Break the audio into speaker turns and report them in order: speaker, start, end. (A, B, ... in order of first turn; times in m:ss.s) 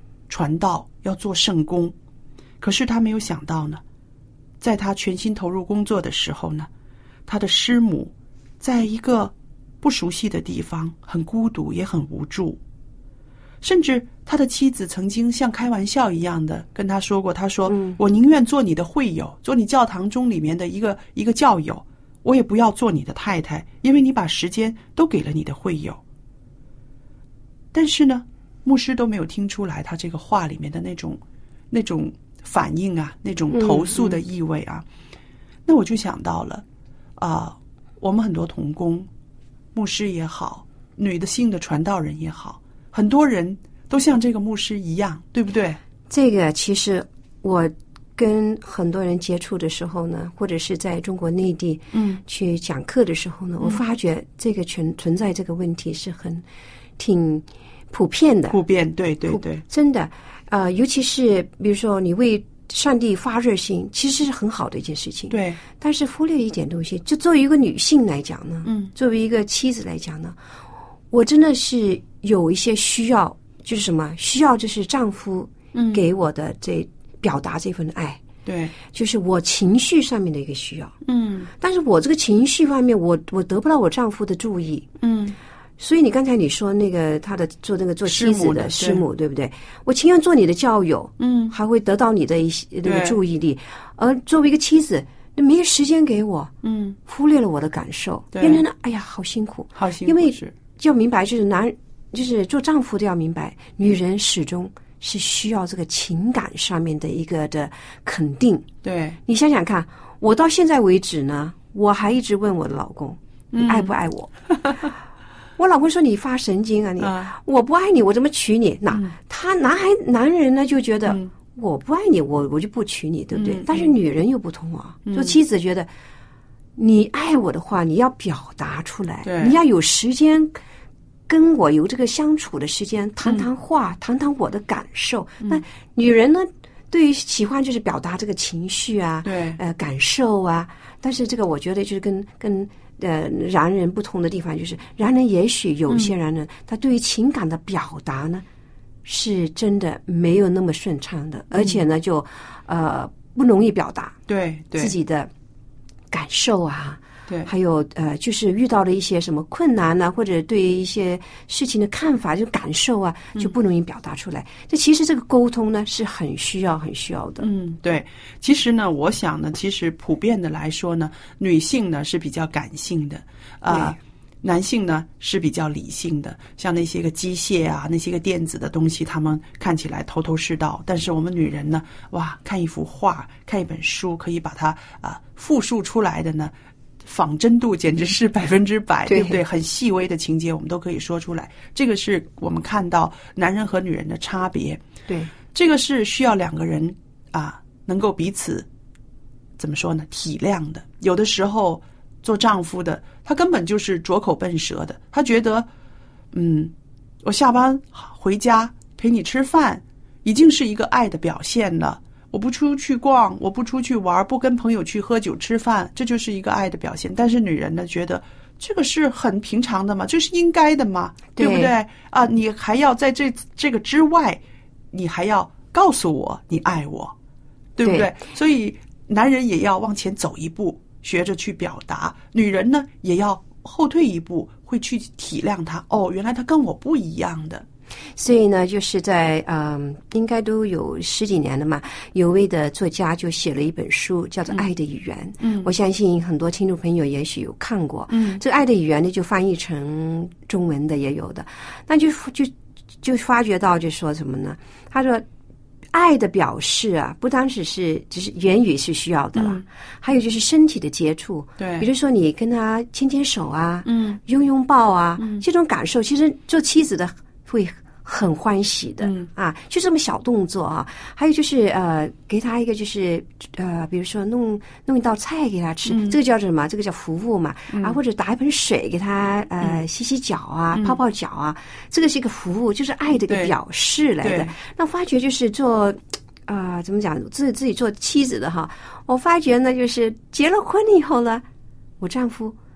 0:00.3-0:02.0 A
0:02.6-0:03.8 A
0:04.6-0:06.7 A
0:07.3-0:12.6 A
0:13.6-0:26.0 A
0:17.7-0:18.0 B
0:27.7-0:34.8 A
0:33.6-0:34.2 B
0:35.7-0:36.6 A
0:37.2-0:39.1 A
0:39.7-0:45.8 A
0:46.1-0:56.4 B
0:51.9-0:52.2 A
0:57.0-0:58.6 B
0:58.5-0:59.6 A
0:59.3-1:10.4 B
1:05.3-1:05.6 A
1:08.6-1:08.9 A
1:11.1-1:18.3 B
1:15.7-1:16.0 A
1:18.5-1:18.8 A
1:18.8-1:20.9 B
1:21.0-1:21.5 A
1:21.6-1:25.0 B
1:25.0-1:25.4 A
1:25.8-1:36.5 B
1:28.0-1:29.0 A
1:31.2-1:31.5 A
1:32.8-1:33.2 A
1:36.6-1:37.0 A
1:37.0-1:48.7 B
1:38.3-1:38.6 A
1:39.8-1:40.5 A
1:48.8-1:49.2 A
1:49.2-1:54.3 B
1:53.5-1:53.9 A
1:55.6-2:05.9 B
1:57.0-1:57.3 A
2:03.3-2:03.9 A
2:05.1-2:05.4 A
2:06.8-2:10.6 B
2:09.2-2:09.6 A
2:11.3-2:28.4 B
2:19.2-2:19.6 A
2:29.0-2:34.2 B
2:31.5-2:31.8 A
2:34.3-2:35.0 A
2:34.8-2:35.3 B
2:36.1-2:47.5 B
2:47.4-3:06.5 A
2:53.7-2:54.0 B
3:07.0-3:14.8 A
3:09.1-3:09.4 B
3:15.4-3:18.7 A
3:19.6-3:25.7 A
3:26.3-3:47.2 A
3:41.4-3:41.7 B
3:47.8-3:57.6 A
3:47.8-3:48.1 B
3:58.2-4:15.2 B
4:05.4-4:05.7 A
4:08.1-4:08.4 A
4:15.9-4:51.4 B
4:19.4-4:19.6 A
4:21.6-4:21.9 A
4:23.8-4:24.2 A
4:25.2-4:25.4 A
4:29.0-4:29.3 A
4:35.9-4:36.2 A
4:37.7-4:38.0 A
4:40.7-4:41.0 A
4:43.3-4:43.5 A
4:44.2-4:44.6 A
4:52.0-4:52.6 B